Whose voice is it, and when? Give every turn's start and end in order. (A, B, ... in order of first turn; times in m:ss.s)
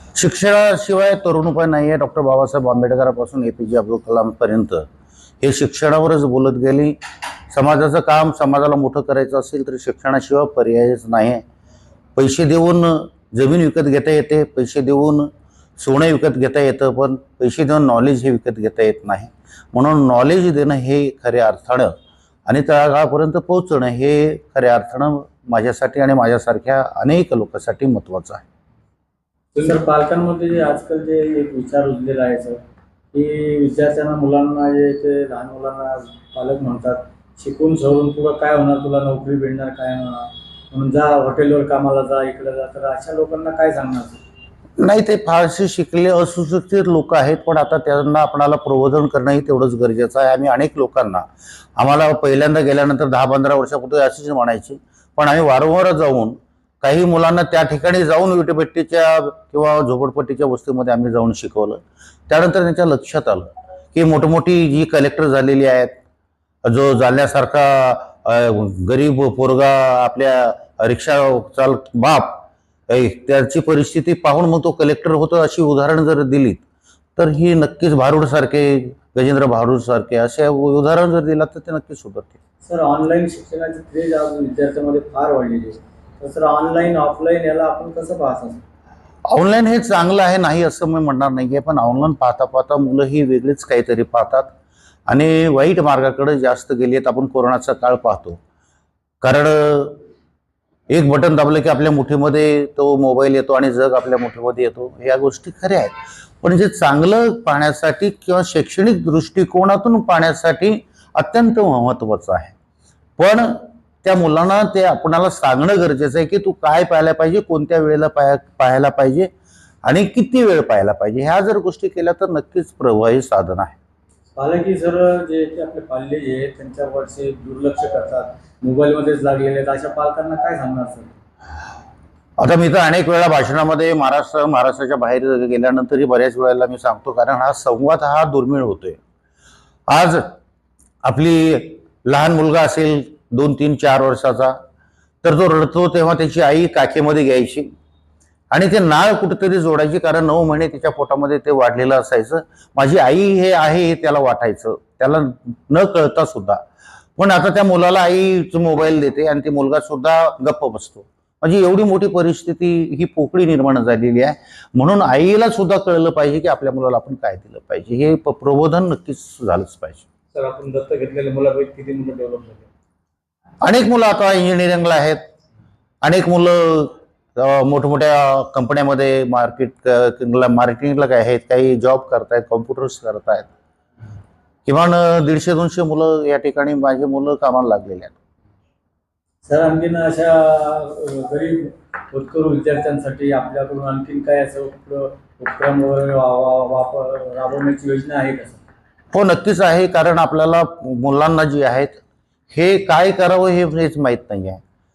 0:00.1-0:04.8 A
0:05.4-0:07.0 A
0:07.5-0:11.4 A
0:12.2-0:21.9 A
0:22.5-0:28.4 A
0:29.6-0:32.6 B
0:33.1-0:44.2 B
0:44.8-0:51.2 A
0:51.8-1:06.0 A
1:06.6-1:16.6 A
1:17.2-1:22.4 A
1:22.6-1:28.6 B
1:29.3-1:34.5 A
1:35.1-1:38.4 A
1:39.2-1:40.0 A
1:40.9-1:52.5 A
1:53.2-1:59.3 A
1:59.8-2:03.8 A
2:04.4-2:11.1 B
2:12.4-2:19.0 A
2:19.9-2:20.3 A
2:21.0-2:24.6 A
2:25.2-2:27.7 A
2:28.5-2:36.6 A
2:37.2-2:50.0 A
2:50.3-2:52.7 C
2:53.6-2:55.2 A
2:56.0-3:03.5 A
3:04.6-3:08.1 A
3:09.4-3:18.6 B
3:19.1-3:24.6 A